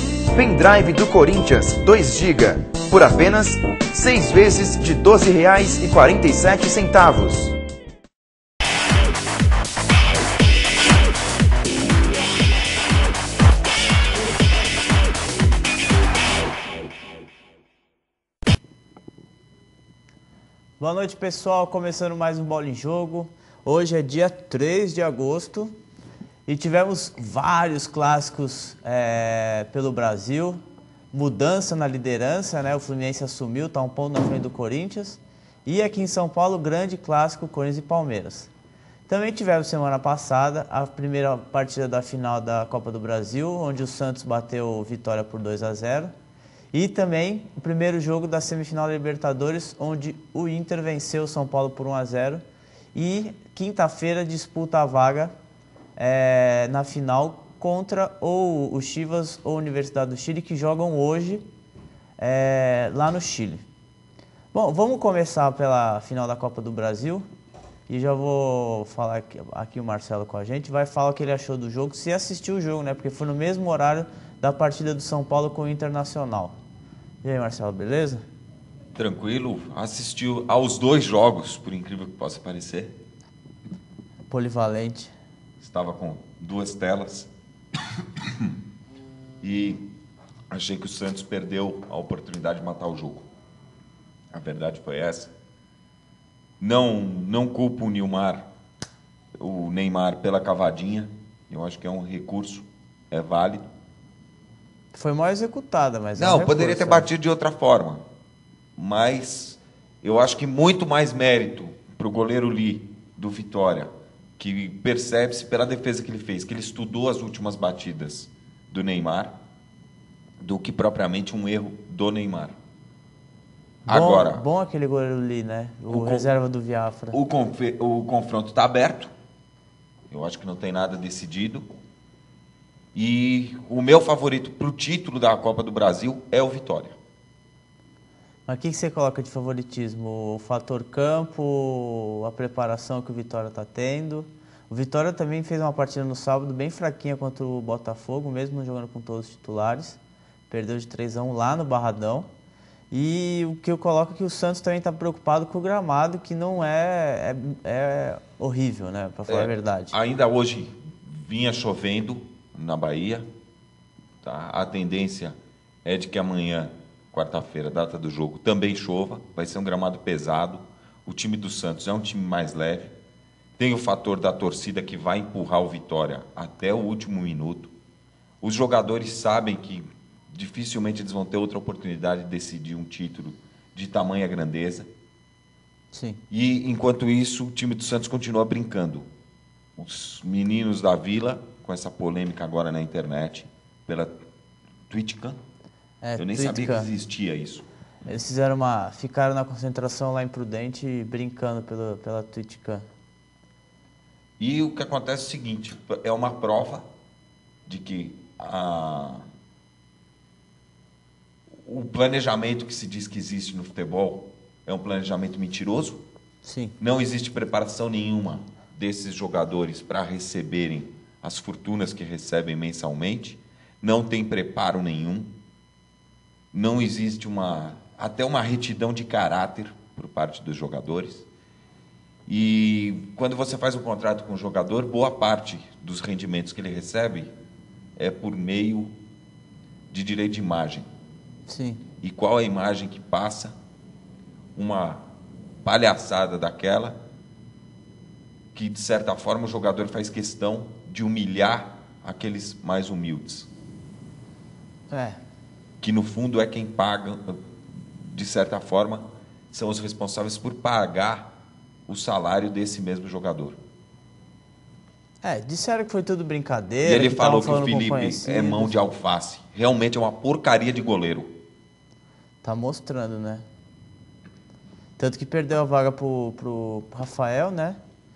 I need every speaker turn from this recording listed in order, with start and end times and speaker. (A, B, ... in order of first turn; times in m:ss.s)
0:00.3-0:07.5 A
0:20.8-0:25.8 B
0:26.5-0:30.6 B
0:31.1-0:38.5 B
0:39.1-0:46.1 B
0:46.7-0:52.4 B
0:53.0-0:55.3 B
0:56.0-1:01.4 B
1:02.2-1:03.7 B
1:04.5-1:07.3 B
1:07.9-1:16.6 B
1:17.2-1:18.2 B
1:19.0-1:23.0 C
1:24.3-1:25.1 B
1:25.6-1:27.3 C
1:28.2-1:28.6 C
1:29.4-1:29.9 C
1:30.5-1:33.3 C
1:34.3-1:35.3 C
1:36.6-1:38.5 C
1:39.4-1:43.7 C
1:44.9-1:47.1 B
1:46.2-1:48.0 C
1:48.8-1:59.4 C
2:00.4-2:02.6 C
2:03.8-2:04.4 C
2:03.9-2:07.2 B
2:05.9-2:06.3 C
2:07.1-2:09.1 C
2:10.1-2:11.7 C
2:12.9-2:17.0 C
2:18.5-2:30.0 B
2:30.5-2:32.3 B
2:32.9-2:40.0 B
2:39.3-2:43.3 C
2:44.2-2:52.9 C
2:53.6-2:57.7 C
2:58.4-3:04.9 C
3:05.9-3:06.2 B
3:06.3-3:09.1 C
3:09.8-3:14.2 C
3:14.9-3:15.4 C
3:16.0-3:16.9 B
3:16.2-3:17.7 C
3:18.1-3:22.8 B
3:24.4-3:26.9 C
3:27.7-3:29.2 C
3:31.6-3:36.0 C
3:36.4-3:36.8 B
3:36.8-3:45.4 C
3:46.5-3:51.3 C
3:52.3-3:57.3 C
3:58.0-3:59.0 C
3:59.9-4:00.9 C
4:01.5-4:01.8 B
4:02.0-4:03.6 C
4:04.6-4:05.0 C
4:05.6-4:07.0 C
4:08.5-4:13.5 C
4:14.9-4:15.2 B
4:15.8-4:21.3 C
4:21.9-4:23.6 C
4:25.2-4:28.8 B
4:26.8-4:31.3 C
4:32.4-4:33.4 B
4:35.0-4:37.8 B